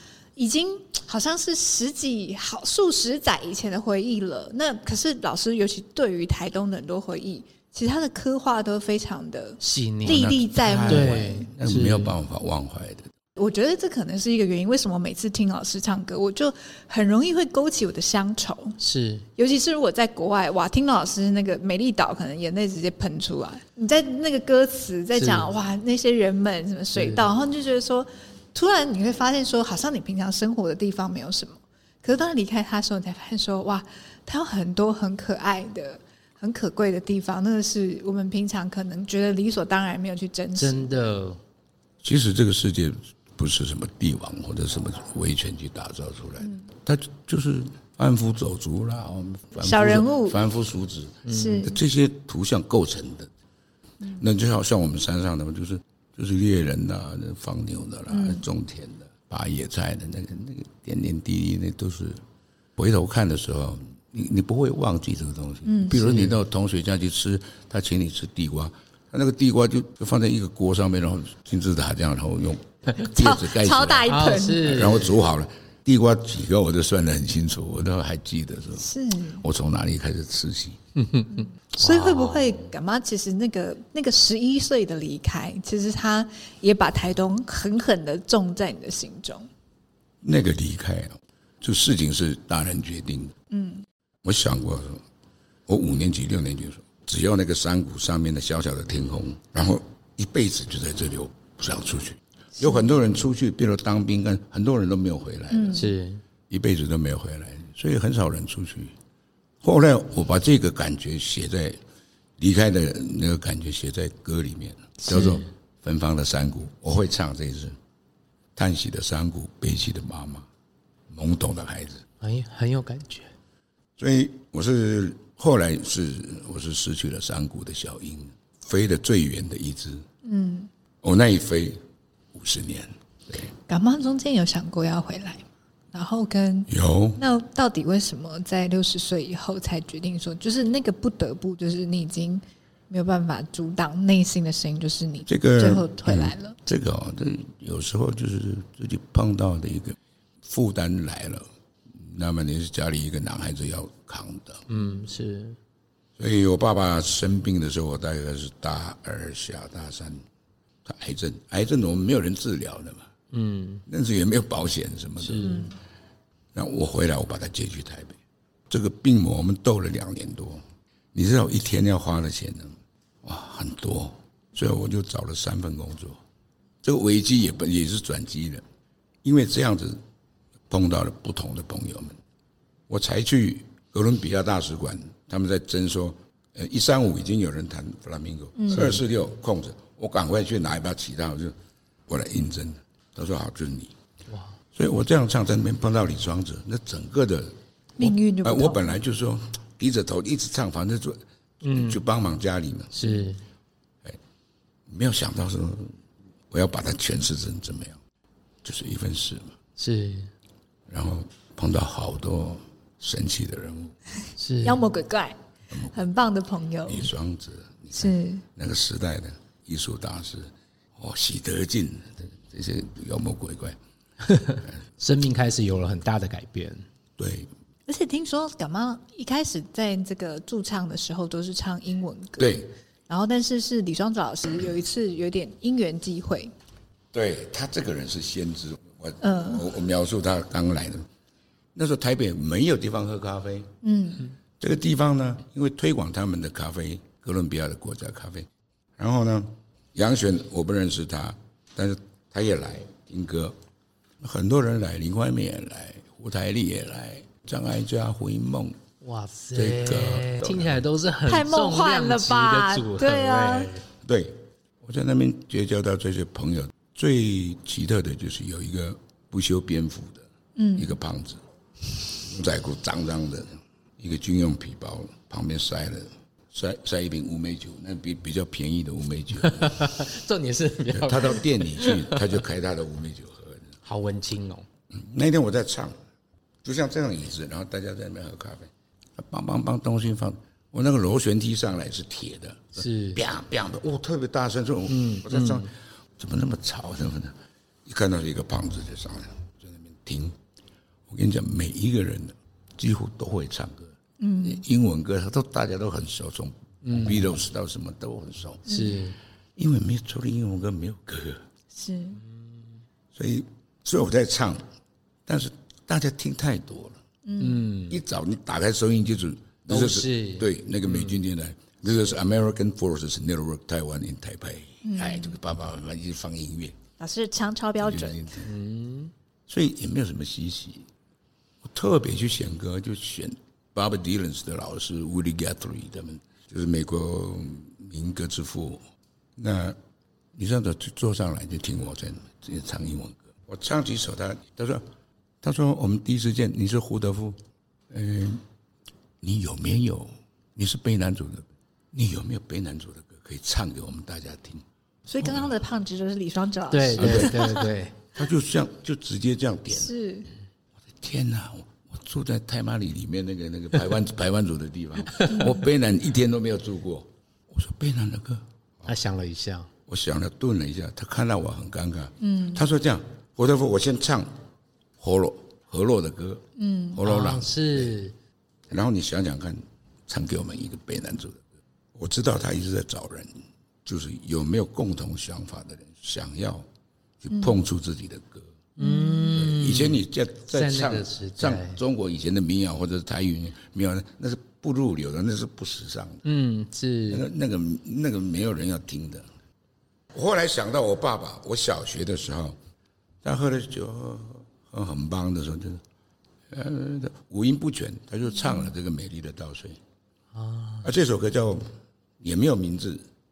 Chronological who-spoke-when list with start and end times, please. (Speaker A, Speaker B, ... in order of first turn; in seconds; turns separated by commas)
Speaker A: 0.3-11.5, Speaker B: 9.6-10.3, Speaker C: 10.0-13.1, Speaker B: 10.8-12.1, Speaker A: 13.4-18.8, Speaker B: 18.8-19.2, Speaker A: 19.4-41.0, Speaker B: 25.1-25.5, Speaker B: 26.9-27.2, Speaker B: 40.5-41.4, Speaker C: 42.0-53.3, Speaker A: 46.4-46.7, Speaker A: 49.6-50.4, Speaker B: 51.2-51.7, Speaker A: 51.3-51.8, Speaker C: 54.1-62.2, Speaker A: 58.1-58.4, Speaker C: 62.8-80.8, Speaker A: 65.6-66.0, Speaker B: 65.9-66.4, Speaker A: 73.0-75.0, Speaker B: 74.1-75.2, Speaker A: 78.8-79.4, Speaker B: 81.0-82.7, Speaker A: 81.3-89.5, Speaker C: 90.2-93.3, Speaker A: 93.5-93.8, Speaker C: 94.2-95.0, Speaker C: 95.7-105.9, Speaker A: 102.6-102.9, Speaker A: 105.5-105.9, Speaker B: 105.7-106.2, Speaker C: 106.5-108.9, Speaker C: 109.6-111.8, Speaker C: 112.4-117.8, Speaker A: 115.0-115.4, Speaker B: 115.1-115.4, Speaker C: 118.5-120.5, Speaker C: 121.1-122.0, Speaker B: 122.2-123.3, Speaker C: 124.0-130.0, Speaker A: 130.2-130.7, Speaker C: 131.0-131.8, Speaker C: 132.3-133.5, Speaker A: 133.7-146.6, Speaker C: 136.7-137.2, Speaker C: 145.3-154.6, Speaker B: 154.7-155.6, Speaker C: 156.2-160.2, Speaker C: 160.8-163.1, Speaker B: 163.3-163.8, Speaker C: 163.9-165.7, Speaker B: 165.2-165.7, Speaker A: 165.4-165.7, Speaker C: 166.5-168.2, Speaker C: 168.7-170.6, Speaker C: 171.1-176.2, Speaker C: 176.8-178.6, Speaker C: 179.2-180.0, Speaker C: 180.7-182.2, Speaker C: 182.9-191.5, Speaker A: 188.6-189.0, Speaker C: 192.1-193.9, Speaker C: 194.7-202.9, Speaker A: 198.0-198.9, Speaker B: 201.6-202.0, Speaker B: 202.9-203.4, Speaker A: 203.0-203.3, Speaker C: 204.9-205.9, Speaker C: 206.5-208.0, Speaker C: 208.6-209.6, Speaker B: 209.8-210.3, Speaker C: 210.9-213.9, Speaker B: 214.4-214.8, Speaker A: 214.6-215.4, Speaker A: 215.9-217.1, Speaker C: 216.8-223.8, Speaker A: 217.9-218.4, Speaker B: 224.2-226.8, Speaker C: 227.2-227.5, Speaker A: 227.9-236.5, Speaker C: 232.4-232.7, Speaker C: 237.1-241.1, Speaker A: 239.2-239.7, Speaker C: 241.7-243.7, Speaker A: 243.8-244.3, Speaker C: 244.6-253.5, Speaker C: 254.2-258.8, Speaker B: 259.0-263.8, Speaker C: 259.5-260.8, Speaker A: 261.2-263.7, Speaker C: 264.0-271.4, Speaker A: 270.6-270.9, Speaker C: 272.2-279.8, Speaker B: 279.4-282.3, Speaker C: 280.9-283.7, Speaker B: 283.8-284.6, Speaker C: 284.9-285.9, Speaker C: 286.6-300.4, Speaker B: 292.8-293.2, Speaker B: 294.9-295.7, Speaker C: 301.1-308.7, Speaker A: 304.2-304.6, Speaker B: 306.8-307.2, Speaker A: 308.7-309.0, Speaker B: 308.7-309.1, Speaker C: 309.6-311.4, Speaker A: 311.7-312.2, Speaker C: 313.1-314.6, Speaker C: 315.2-317.0, Speaker A: 317.2-317.6, Speaker B: 317.4-318.0, Speaker C: 317.9-326.8, Speaker B: 319.7-321.1, Speaker A: 324.8-325.4, Speaker A: 327.0-328.4, Speaker C: 327.8-328.5, Speaker B: 328.4-329.1, Speaker C: 329.5-330.9, Speaker C: 331.6-338.8, Speaker C: 339.4-339.8, Speaker C: 340.3-344.8, Speaker C: 345.4-347.4, Speaker C: 347.9-348.4, Speaker C: 349.2-354.6, Speaker A: 355.1-357.7, Speaker C: 355.2-355.5, Speaker B: 356.7-358.0, Speaker C: 356.9-357.5, Speaker C: 358.1-359.9, Speaker A: 359.7-360.3, Speaker C: 360.9-368.9, Speaker B: 365.1-365.5, Speaker B: 368.9-369.7, Speaker C: 369.9-374.3, Speaker A: 372.2-372.6, Speaker C: 375.0-377.9, Speaker A: 376.6-377.0, Speaker B: 377.0-378.1, Speaker C: 378.7-381.4, Speaker C: 381.9-386.6, Speaker C: 387.2-388.6, Speaker A: 387.3-387.6, Speaker B: 388.8-391.8, Speaker A: 388.8-389.3, Speaker C: 389.3-396.2, Speaker B: 396.2-397.2, Speaker C: 397.1-399.3, Speaker C: 400.1-402.6, Speaker C: 403.2-405.8, Speaker C: 406.5-409.8, Speaker B: 410.3-410.9, Speaker C: 410.8-411.6, Speaker C: 412.2-413.0